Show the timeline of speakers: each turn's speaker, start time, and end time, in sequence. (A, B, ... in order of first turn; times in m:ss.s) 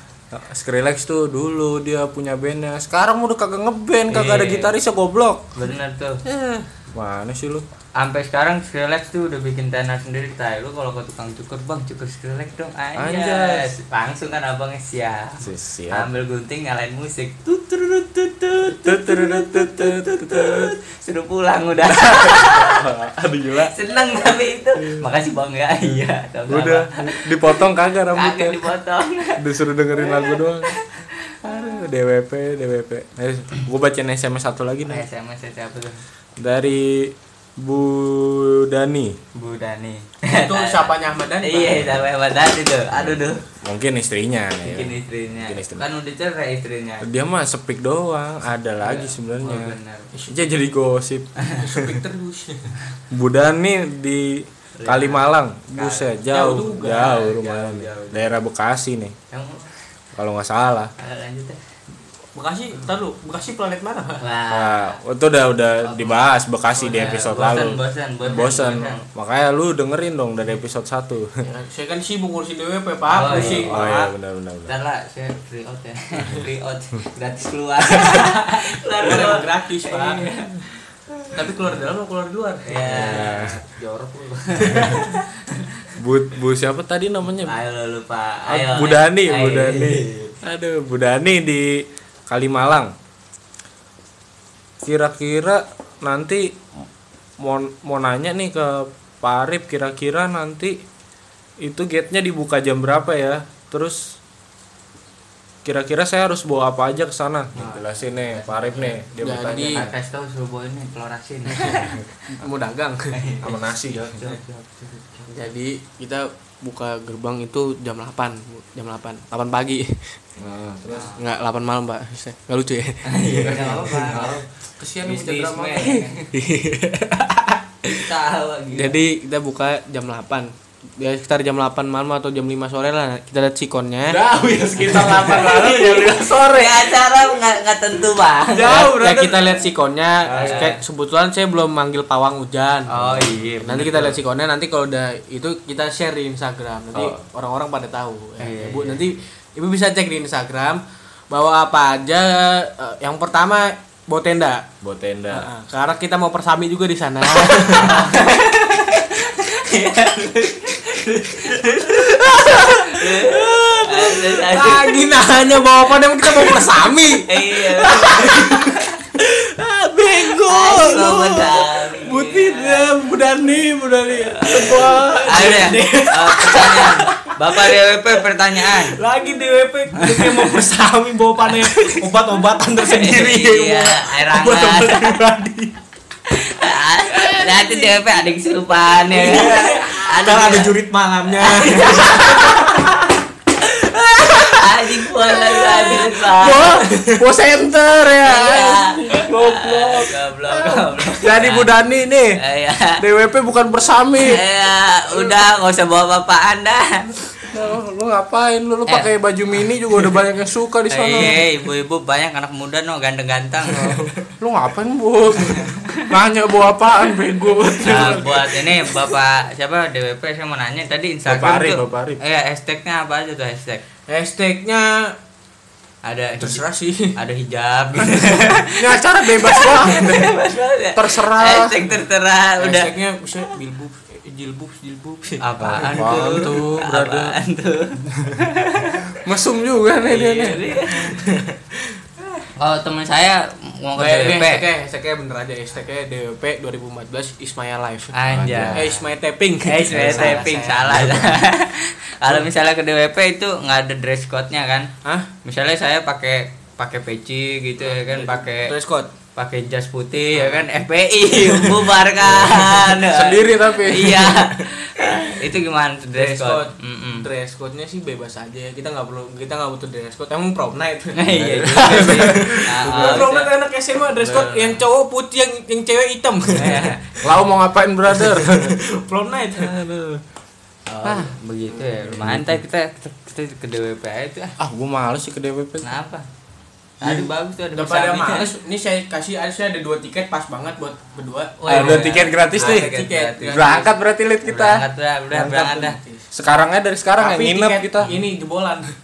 0:00.3-0:05.5 A
0:04.1-0:04.7 B
0:05.6-0:06.2 B
0:06.2-0:07.6 A
0:08.0-0:22.8 B
0:13.0-0:13.7 A
0:15.4-0:16.1 A
0:18.7-0:20.7 A
0:21.9-0:23.7 A
0:23.6-0:29.4 B
0:24.8-0:25.1 A
0:26.5-0:28.6 A
0:29.4-0:30.8 A
0:30.0-0:31.7 B
0:31.4-0:35.1 A
0:34.9-0:36.0 B
0:36.4-0:39.2 A
0:39.4-0:43.4 B
0:40.3-0:41.9 C
0:43.0-0:45.8 A
0:44.6-0:47.1 B
0:47.0-0:49.8 A
0:48.8-0:50.1 B
0:50.1-0:50.4 C
0:50.3-0:52.0 A
0:51.6-0:52.7 C
0:53.1-0:59.2 A
0:54.8-0:56.2 B
0:56.3-0:57.3 C
0:57.0-0:58.2 B
0:59.3-0:59.7 B
1:00.2-1:00.9 A
1:01.0-1:01.6 B
1:02.4-1:04.2 C
1:04.2-1:05.0 B
1:04.5-1:11.3 A
1:05.8-1:06.1 B
1:06.8-1:07.2 C
1:06.9-1:09.0 B
1:11.4-1:14.1 C
1:13.1-1:13.9 B
1:13.3-1:14.7 A
1:14.7-1:20.6 B
1:19.0-1:20.4 C
1:21.3-1:23.2 C
1:22.7-1:25.9 B
1:22.9-1:23.6 A
1:24.7-1:25.0 C
1:24.7-1:25.0 A
1:26.0-1:27.5 A
1:27.4-1:30.3 B
1:28.5-1:32.9 A
1:34.8-1:36.6 A
1:37.4-1:40.8 A
1:41.6-1:44.2 A
1:45.6-1:49.9 A
1:47.6-1:47.9 C
1:48.0-1:49.0 B
1:49.2-1:49.9 C
1:49.6-1:52.0 B
1:51.5-1:53.2 C
1:53.1-1:55.3 B
1:53.4-1:54.2 A
1:55.3-2:00.2 C
2:00.4-2:01.1 A
2:00.9-2:01.2 B
2:01.2-2:03.6 C
2:03.1-2:04.4 B
2:03.3-2:06.0 A
2:05.0-2:06.3 B
2:06.3-2:08.0 C
2:07.9-2:09.0 B
2:08.8-2:14.2 C
2:14.1-2:16.8 A
2:14.7-2:16.2 C
2:15.2-2:18.7 B
2:18.6-2:22.9 C
2:18.6-2:19.6 A
2:20.2-2:20.7 A
2:20.4-2:20.8 B
2:22.9-2:24.2 B
2:23.1-2:23.4 A
2:23.6-2:34.7 C
2:26.9-2:27.2 A
2:28.4-2:29.1 B
2:34.8-2:35.5 A
2:35.3-2:38.2 C
2:37.4-2:45.0 B
2:41.5-2:51.4 C
2:47.3-2:49.0 B
2:49.9-2:55.7 A
2:50.5-2:52.8 B
2:54.2-3:05.8 C
2:54.4-2:54.7 B
2:55.3-2:59.0 B
3:00.0-3:00.6 B
3:02.8-3:05.2 B
3:06.3-3:10.7 B
3:07.2-3:08.0 C
3:09.1-3:13.1 C
3:11.4-3:12.8 B
3:14.2-3:16.8 B
3:14.2-3:14.5 A
3:15.3-3:19.8 A
3:15.5-3:17.2 C
3:18.2-3:21.7 B
3:19.1-3:20.1 C
3:21.2-3:22.4 A
3:22.4-3:23.0 B
3:23.0-3:24.4 A
3:24.3-3:27.1 B
3:27.4-3:31.4 A
3:30.9-3:34.0 B
3:33.7-3:34.3 C
3:34.4-3:38.5 A
3:35.5-3:36.1 B
3:37.1-3:38.9 C
3:37.9-3:43.8 B
3:41.3-3:42.2 A
3:44.1-3:45.2 C
3:46.0-3:46.6 B
3:46.4-3:47.1 C
3:47.2-3:52.9 B
3:48.7-3:50.4 A
3:51.0-3:51.9 A
3:52.6-3:55.4 C
3:55.4-3:59.1 B
3:55.6-3:57.4 A
3:58.1-3:58.4 A
3:59.2-4:00.6 A
4:00.0-4:01.2 B
4:01.1-4:02.4 C
4:02.6-4:04.6 B
4:04.0-4:08.1 C
4:08.1-4:09.0 B
4:08.3-4:08.9 A
4:08.7-4:11.3 C
4:09.6-4:14.9 B
4:09.9-4:10.5 A
4:15.0-4:15.3 C
4:15.4-4:18.7 B
4:17.8-4:19.1 C
4:19.4-4:27.3 B
4:20.3-4:20.7 C
4:21.4-4:22.8 C
4:22.2-4:24.6 A
4:26.2-4:31.2 C
4:31.1-4:33.5 B
4:31.3-4:33.2 A
4:31.7-4:37.4 C
4:34.2-4:34.8 B
4:36.5-4:37.0 B
4:37.2-4:38.8 A
4:38.1-4:39.7 C
4:39.5-4:40.2 A
4:41.0-4:44.6 B
4:41.1-4:42.1 C
4:42.2-4:42.6 A
4:44.6-4:46.0 A
4:45.8-4:46.2 B
4:47.0-4:48.5 B
4:47.0-4:47.3 A
4:47.7-4:53.9 C
4:51.6-4:53.8 B
4:51.7-4:52.9 A
4:53.5-4:58.1 A
4:54.4-4:56.0 B
4:56.0-4:56.3 C
4:57.2-4:58.9 C